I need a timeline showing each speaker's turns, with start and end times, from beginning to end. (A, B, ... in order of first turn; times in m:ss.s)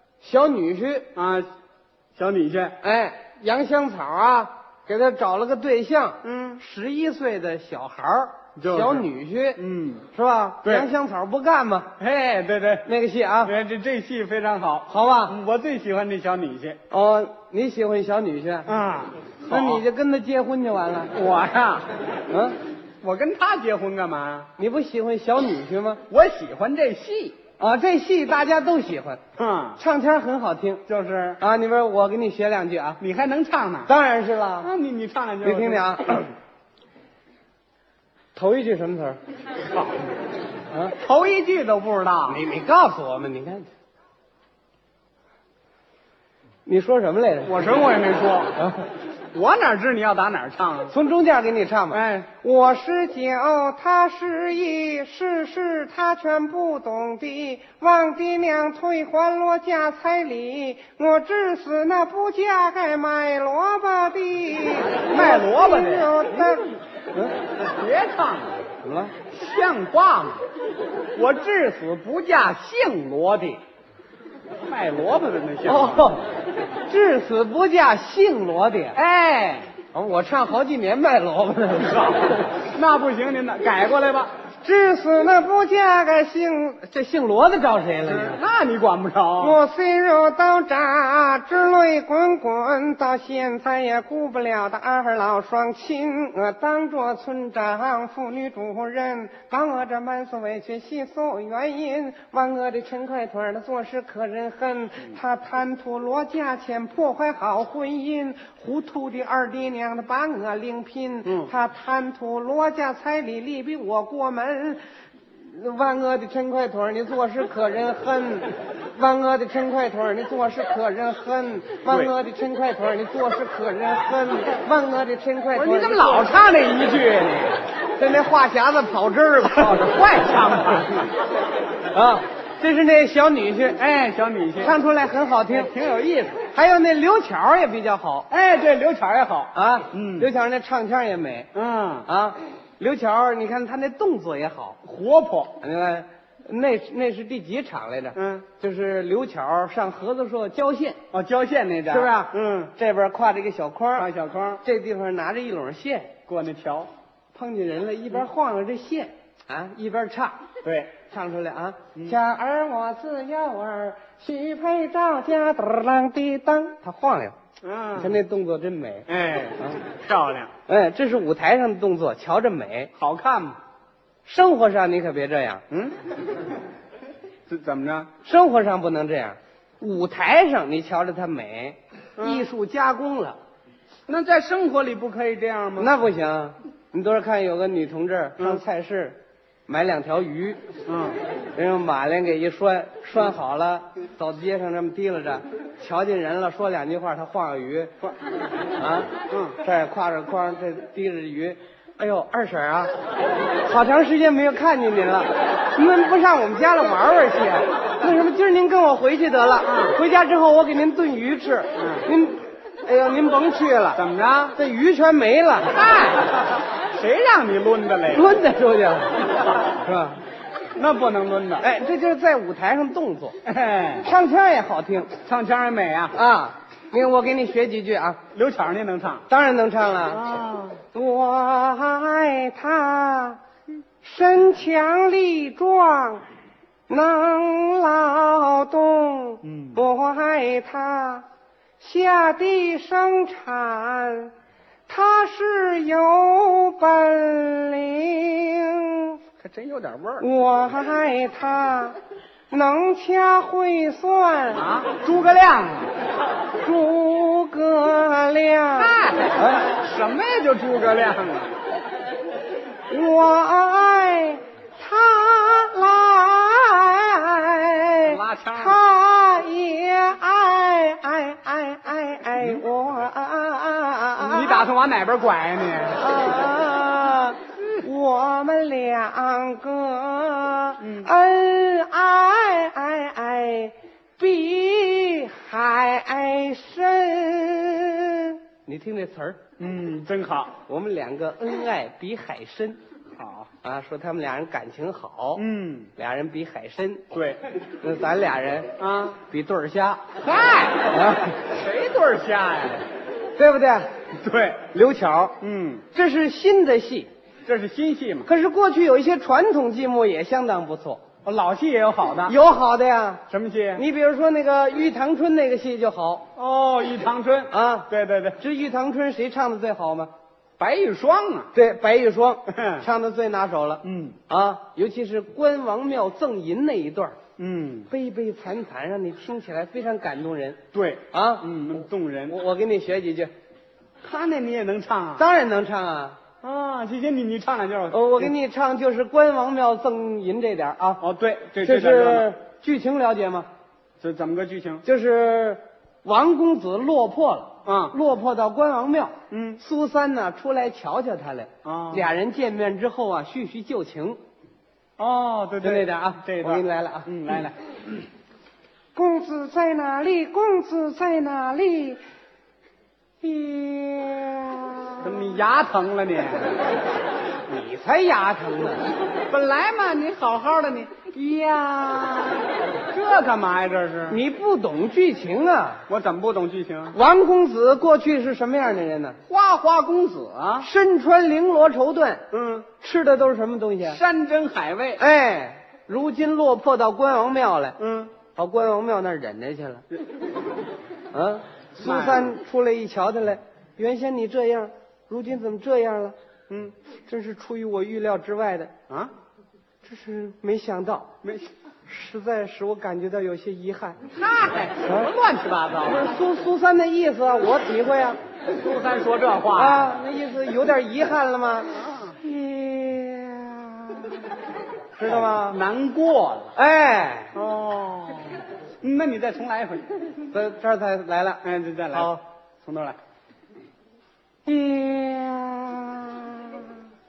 0:00.2-0:01.1 A
0:01.2-0:01.5 B
0:02.2-0:02.8 B
0:02.8-0:09.6 A
0:06.2-0:06.6 B
0:08.6-0:10.1 B
0:10.1-0:11.9 A
0:12.0-0:12.9 B
0:12.8-0:13.5 A
0:13.4-0:16.8 B
0:14.9-0:15.4 A
0:16.9-0:18.7 A
0:18.7-0:19.8 B
0:19.4-0:21.1 A
0:21.1-0:21.9 B
0:22.3-0:22.6 A
0:23.0-0:24.5 B
0:24.6-0:26.0 A
0:26.1-0:27.4 B
0:27.6-0:29.2 A
0:29.4-0:29.8 B
0:29.8-0:30.8 A
0:30.9-0:31.4 B
0:31.4-0:33.0 A
0:33.0-0:33.9 B
0:33.9-0:34.7 A
0:34.6-0:35.9 B
0:35.4-0:36.3 A
0:38.4-0:39.2 A
0:39.7-0:40.0 B
0:41.0-0:42.4 B
0:42.3-0:43.7 A
0:46.6-0:47.7 A
0:47.4-0:48.6 B
0:48.6-0:48.9 A
0:49.3-0:51.0 B
0:50.9-1:07.4 A
0:51.9-0:52.3 B
1:04.9-1:06.2 B
1:07.7-1:08.6 B
1:08.8-1:09.1 A
1:09.3-1:10.4 B
1:11.2-1:13.6 B
1:14.6-1:16.2 B
1:15.6-1:16.3 A
1:16.9-1:19.0 A
1:19.0-1:19.7 B
1:19.9-1:22.4 A
1:21.9-1:24.3 B
1:24.6-1:28.4 A
1:28.0-1:29.6 B
1:29.4-1:54.8 A
1:55.3-2:06.4 A
2:05.6-2:07.7 B
2:08.0-2:10.3 A
2:09.5-2:11.1 B
2:11.9-2:13.8 A
2:13.8-2:14.8 B
2:14.6-2:15.7 A
2:15.5-2:16.4 B
2:16.4-2:18.3 A
2:18.3-2:20.3 B
2:19.5-2:21.5 A
2:21.5-2:22.1 B
2:22.1-2:24.8 A
2:24.8-2:25.6 B
2:25.6-2:31.0 A
2:28.2-2:28.5 B
2:31.1-2:32.7 B
2:31.9-2:34.1 A
2:34.0-2:34.6 B
2:34.6-2:36.1 A
2:36.3-2:36.9 B
2:37.3-2:40.4 A
2:40.6-2:40.9 B
2:41.1-2:47.4 A
2:47.6-2:48.2 B
2:48.0-2:49.1 A
2:49.1-2:50.5 B
2:50.7-2:52.9 A
2:53.0-2:53.6 B
2:54.2-2:55.6 A
2:55.7-2:56.0 B
2:57.5-2:58.1 B
2:58.2-3:03.4 A
3:02.2-3:02.4 B
3:04.1-3:05.9 B
3:05.8-3:10.6 A
3:10.9-3:11.2 B
3:11.6-3:18.0 A
3:18.7-3:22.9 A
3:19.3-3:19.6 B
3:23.6-3:34.0 A
3:29.6-3:30.0 B
3:31.8-3:32.1 B
3:34.0-3:34.6 B
3:34.6-3:36.2 A
3:36.8-3:38.4 B
3:38.1-3:40.2 A
3:40.8-3:41.6 B
3:41.6-3:43.4 A
3:43.4-3:44.1 B
3:44.0-3:45.1 A
3:45.2-3:46.2 B
3:46.1-3:48.2 A
3:48.3-3:49.2 B
3:49.3-3:50.2 A
3:50.1-3:50.8 B
3:50.9-3:53.4 A
3:54.0-3:56.2 A
3:56.9-4:01.2 A
3:59.4-3:59.8 B
4:01.8-4:04.3 A
4:04.9-4:09.2 A
4:09.4-4:10.3 B
4:10.2-4:12.0 A
4:12.5-4:14.7 A
4:14.6-4:15.9 B
4:16.6-4:19.6 A
4:18.8-4:21.6 B
4:22.9-4:34.7 A
4:28.0-4:28.8 B
4:34.2-4:36.0 B
4:36.0-4:49.4 A
4:40.8-4:41.1 B
4:49.6-4:50.5 B
4:50.7-4:52.8 A
4:53.2-4:53.5 B
4:53.6-4:55.4 A
4:55.4-4:55.9 B
4:56.0-4:57.0 A
4:57.1-4:57.4 B
4:57.8-4:58.7 A
4:58.8-4:59.2 B
4:59.3-5:00.1 A
5:00.2-5:02.8 B
5:00.8-5:01.4 A
5:03.4-5:03.9 A
5:04.2-5:04.7 B
5:04.7-5:05.4 A
5:05.4-5:05.8 B
5:05.9-5:07.1 A
5:07.5-5:08.3 B
5:08.3-5:11.0 A
5:11.2-5:12.4 B
5:12.3-5:13.2 A
5:13.3-5:13.8 B
5:13.8-5:16.3 A
5:16.4-5:18.4 B
5:17.5-5:17.9 A
5:18.4-5:20.1 A
5:20.6-5:21.5 B
5:21.5-5:27.2 A
5:22.5-5:22.8 B
5:23.8-5:24.2 B
5:27.4-5:27.9 B
5:27.9-5:30.6 A
5:30.7-5:32.4 B
5:31.1-5:31.5 A
5:32.3-5:33.3 A
5:34.0-5:35.2 B
5:35.2-5:36.2 A
5:36.4-5:38.3 B
5:37.9-5:41.0 A
5:41.0-5:42.3 B
5:41.6-5:43.5 A
5:44.0-5:44.8 B
5:44.8-5:54.2 A
5:47.6-5:48.0 B
5:49.3-5:49.6 B
5:51.6-5:52.1 B
5:55.0-5:57.5 B
5:55.6-5:57.4 A
5:59.0-6:02.0 A
6:03.2-6:05.3 A
6:05.0-6:06.6 B
6:07.5-6:08.9 A
6:09.3-6:12.4 B
6:11.2-6:12.4 A
6:12.9-6:14.2 B
6:14.1-6:15.8 A
6:15.9-6:17.0 B
6:16.9-6:19.2 A
6:19.3-6:20.7 B
6:20.6-6:22.2 A
6:22.3-6:22.7 B
6:22.8-6:24.0 A
6:23.9-6:25.0 B
6:25.0-6:27.8 A
6:27.8-6:28.1 B
6:28.4-6:29.8 A
6:31.1-6:36.2 A
6:31.8-6:32.3 B
6:37.1-6:38.7 A
6:39.8-6:41.1 A
6:41.2-6:41.5 B
6:41.9-6:44.0 A
6:44.1-6:46.2 B
6:45.8-6:48.2 A
6:48.5-6:49.9 B
6:49.5-6:54.4 A
6:51.8-6:52.1 B
6:55.0-6:55.6 A
6:55.0-6:56.5 B
6:56.6-6:57.4 A
6:57.3-6:59.9 B
7:00.3-7:02.2 A
7:01.4-7:03.0 B
7:04.4-7:06.7 A